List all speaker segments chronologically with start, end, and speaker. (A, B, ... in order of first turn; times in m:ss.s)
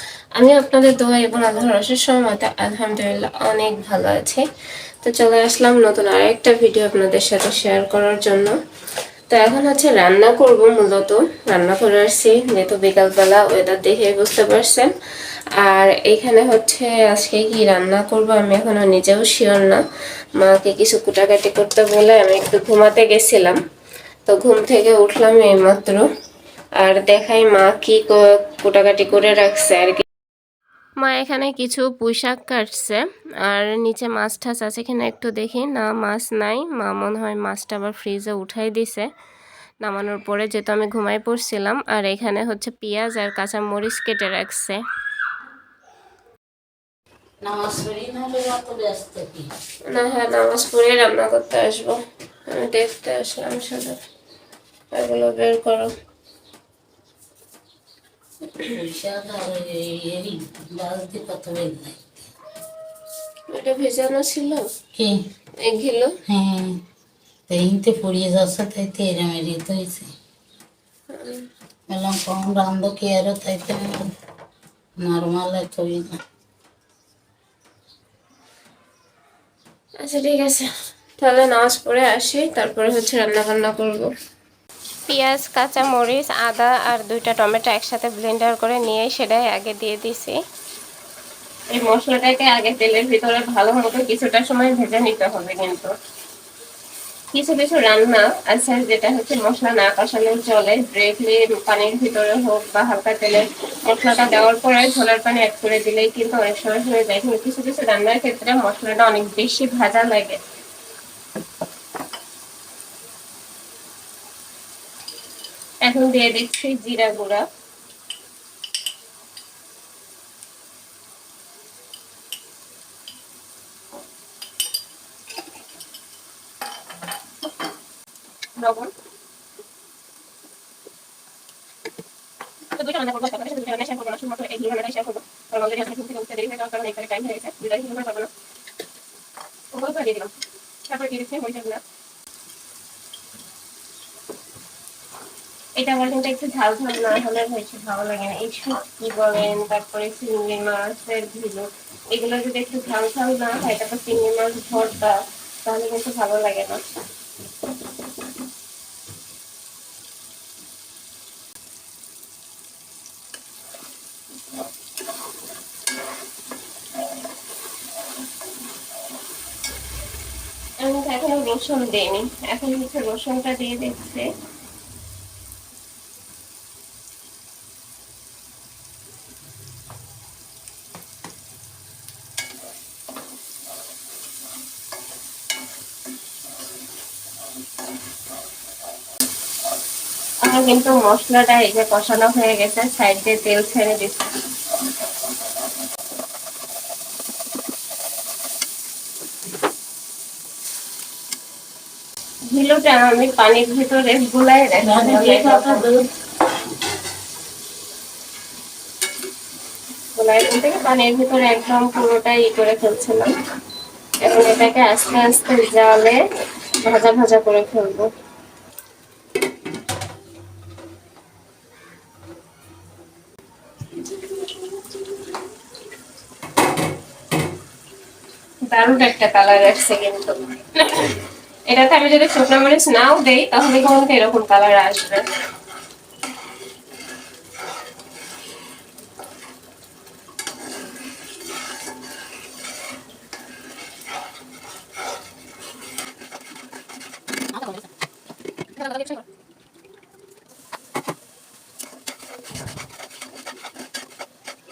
0:00.4-0:04.4 A
0:05.0-0:08.5 A
0:09.3-0:14.9 A
0:15.6-0:19.8 A
0:20.4-0:23.6 A
0:24.3-0:26.0 A
0:26.8-0:30.0 A
0:31.0-0:39.1 A
0:39.8-0:44.8 A
0:47.4-0:49.5 B
0:49.9-0:52.0 A
0:52.5-0:54.0 A
0:54.9-0:55.9 A
0:58.6-1:02.0 B
1:03.5-1:04.6 A
1:04.9-1:05.2 B
1:05.6-1:06.1 A
1:06.3-1:06.8 B
1:07.5-1:10.1 B
1:11.1-1:11.4 A
1:11.9-1:14.1 B
1:15.0-1:16.2 B
1:20.0-1:24.1 A
1:25.1-1:30.4 A
1:31.7-1:35.9 A
1:37.3-1:50.4 A
1:55.8-1:57.4 A
2:08.6-2:08.9 A
2:12.8-2:18.3 A
2:19.7-2:20.3 A
2:20.9-2:21.8 A
2:25.8-2:36.8 A
2:50.8-2:54.2 A
3:10.4-3:14.3 A
3:22.5-3:25.8 A
3:24.8-3:26.1 B
3:30.2-3:33.3 A
3:34.2-3:36.2 A
3:36.8-3:38.1 A
3:48.7-3:51.2 A
3:51.7-3:55.2 A
4:08.7-4:09.2 A